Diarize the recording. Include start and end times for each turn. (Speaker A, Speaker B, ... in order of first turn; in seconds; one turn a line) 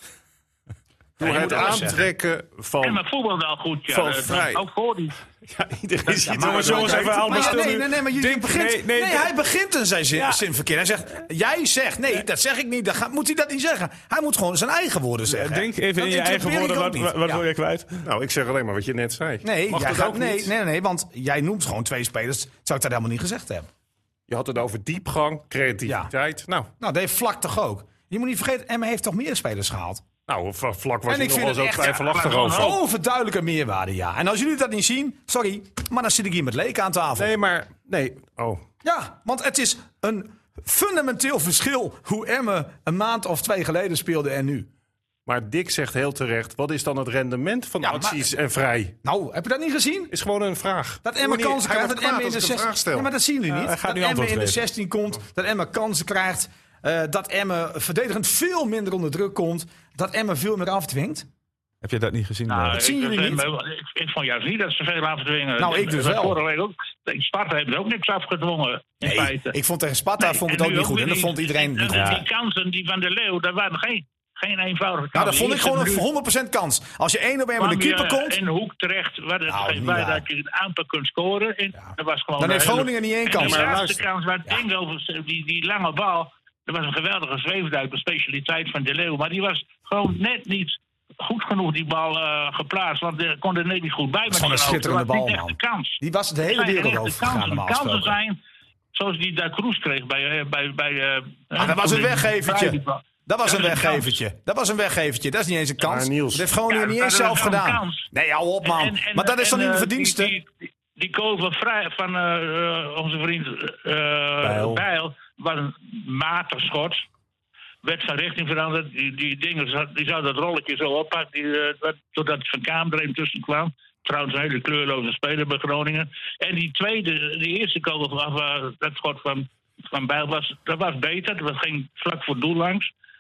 Speaker A: 1.2-2.0
Speaker B: 1.2-3.0
Speaker C: 2.8-5.2
Speaker B: 3.9-4.7
Speaker B: 5.5-7.6
Speaker A: 6.3-17.4
Speaker D: 6.4-9.3
Speaker D: 10.2-10.4
Speaker D: 15.3-18.0
Speaker B: 18.0-20.5
Speaker A: 19.4-23.7
Speaker B: 24.3-26.7
Speaker A: 25.9-26.1
Speaker A: 26.8-30.0
Speaker B: 30.3-32.8
Speaker A: 31.1-37.3
Speaker C: 31.8-32.7
Speaker B: 37.2-38.6
Speaker A: 38.8-44.7
Speaker B: 45.3-49.0
Speaker A: 47.8-48.3
Speaker A: 49.0-50.1
Speaker B: 50.1-53.1
Speaker A: 51.0-61.3
Speaker D: 53.5-54.6
Speaker D: 61.8-62.8
Speaker C: 62.5-69.5
Speaker A: 62.7-63.5
Speaker A: 65.6-66.4
Speaker A: 69.0-72.2
Speaker C: 70.2-76.1
Speaker D: 71.9-72.2
Speaker A: 75.1-78.4
Speaker C: 77.6-98.4
Speaker A: 79.5-80.2
Speaker A: 81.8-83.8
Speaker B: 83.4-84.0
Speaker A: 94.3-98.2
Speaker C: 98.9-104.2
Speaker A: 101.6-110.3
Speaker B: 105.8-106.5
Speaker C: 106.7-108.1
Speaker C: 108.6-117.0
Speaker C: 117.8-132.9